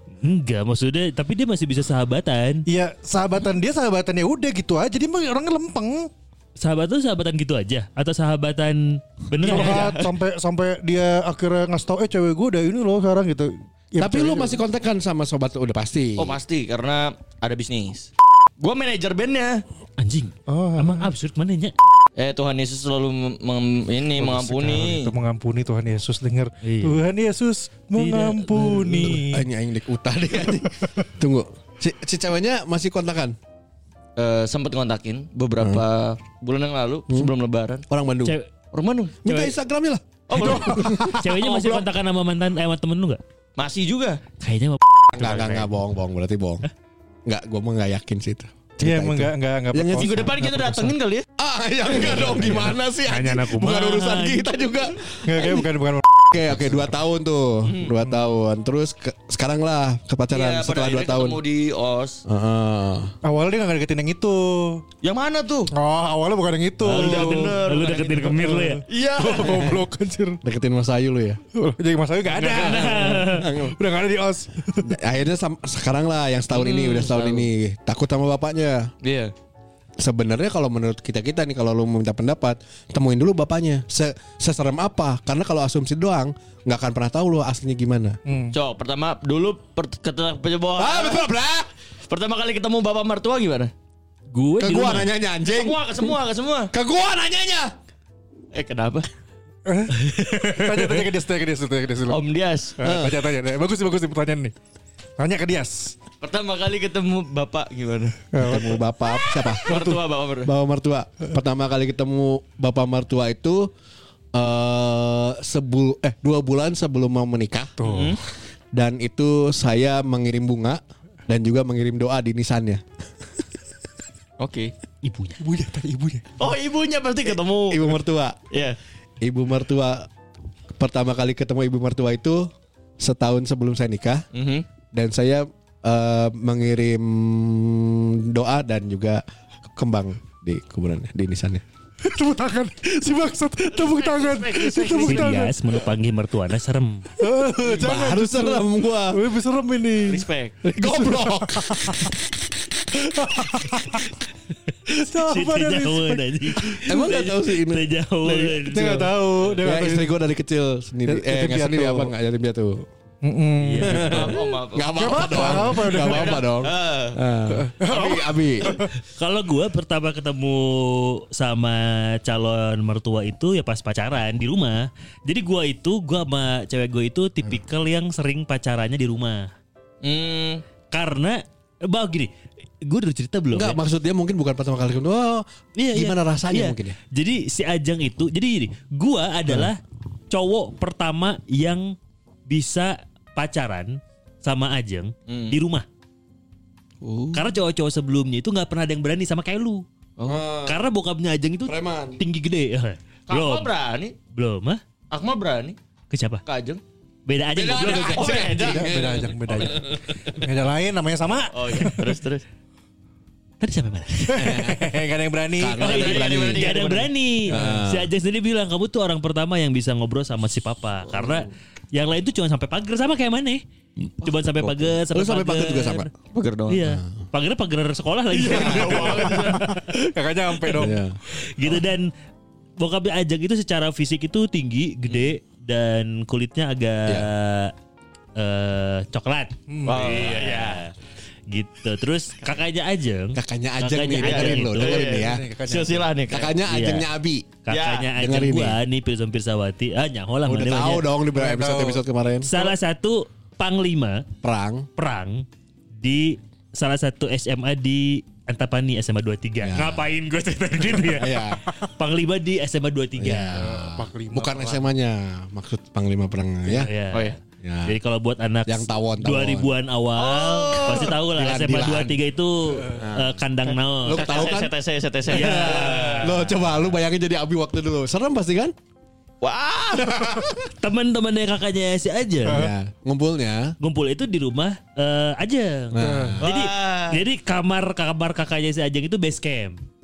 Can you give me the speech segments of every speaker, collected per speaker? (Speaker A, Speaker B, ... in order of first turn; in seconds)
Speaker A: 0.2-2.6, 6.6-9.9, 20.0-21.7, 26.6-27.0, 28.0-29.2, 41.1-43.2, 44.4-45.8, 53.0-54.5, 66.8-68.8, 72.3-73.5, 94.3-95.1, 100.1-101.0, 125.0-125.4, 144.9-147.1, 155.1-159.1, 163.6-164.4, 169.0-179.5, 180.9-182.3, 182.8-183.8, 185.8-189.8, 190.3-191.9, 192.5-195.9, 197.3-199.8, 200.7-203.7, 204.3-204.8, 206.1-206.4, 207.3-208.4, 213.6-214.7, 215.8-223.6, 224.2-226.1, 226.7-229.7, 231.3-232.1, 232.8-237.7, 238.4-240.9, 241.5-245.0, 246.7-247.1, 247.7-251.1, 252.4-254.3, 255.0-255.4, 256.0-263.6, 266.7-274.4, 275.3-276.9, 280.8-282.7, 283.8-289.8
Speaker B: 2.7-6.1, 9.4-14.6, 20.5-21.1, 24.2-29.5, 40.3-41.1, 48.8-50.8, 55.2-56.9, 63.2-64.8, 65.7-70.4, 71.5-74.9, 88.3-88.5, 99.7-102.2, 102.8-104.5, 105.2-106.0, 108.3-108.8, 109.7-110.0, 117.8-118.2, 125.4-126.3, 142.0-145.6, 147.2-150.2, 150.8-152.1, 152.9-154.1, 154.9-156.8, 158.7-160.2, 161.1-162.1, 163.2-164.4, 164.9-166.5, 167.5-168.9, 208.5-212.1, 214.3-215.8, 228.5-231.0, 239.7-240.2, 245.0-246.1, 251.3-252.0, 263.6-264.9, 286.0-286.4
Speaker C: 9.4-10.2, 16.2-19.6, 22.2-25.1, 34.2-37.9, 38.7-39.5, 40.3-41.8, 43.6-44.2, 50.0-51.2, 52.1-52.7, 57.6-58.0, 60.3-62.2, 65.0-65.7, 66.8-69.8, 76.5-77.5, 79.0-79.3, 88.5-91.3, 92.1-93.7, 95.5-96.7, 98.5-99.1, 102.1-102.8, 106.2-108.2, 109.6-110.5, 117.8-118.2, 124.4-124.7, 126.4-127.9, 128.5-128.8, 134.3-134.7, 143.8-145.5, 150.1-150.6, 164.0-167.2, 180.0-180.6, 195.3-195.6, 197.0-197.5, 200.2-200.4, 203.3-204.2, 205.1-205.8, 206.5-206.8, 207.9-209.7, 211.5-212.4, 215.8-217.1, 226.3-226.8, 228.3-230.0, 239.8-240.9, 244.1-246.6, 247.7-248.1, 270.2-271.2, 274.1-276.4, 279.4-280.4, 286.4-287.2
Speaker D: 14.0-16.4, 29.0-33.4, 37.9-38.4, 39.2-41.6, 45.1-46.6, 47.3-50.6, 51.4-55.6, 56.3-61.4, 62.3-63.1, 70.4-71.4, 72.6-73.8, 74.8-78.9, 80.0-88.2, 90.8-91.7, 94.6-96.1, 96.7-97.7, 102.8-103.2, 108.4-109.8, 110.4-113.7, 114.3-117.8, 118.7-122.8, 127.7-128.4, 129.2-130.1, 130.8-132.5, 133.0-134.2, 134.9-141.6, 147.7-149.2, 150.6-152.2, 156.8-162.9, 163.8-168.8, 183.5-187.0, 200.2-200.8, 201.7-202.2, 207.6-210.4, 214.3-214.9, 215.6-216.7, 217.5-218.1, 225.1-226.1, 226.8-227.1, 230.7-231.2, 243.3-245.5, 246.3-247.5, 248.1-248.8, 250.5-252.5, 254.4-254.9, 259.6-260.1, 260.9-261.6, 263.2-266.9, 267.6-267.9, 268.7-269.7, 270.9-272.2, 273.0-273.4, 274.0-274.7, 275.3-278.7, 280.0-280.7, 282.5-283.8, 285.9-286.5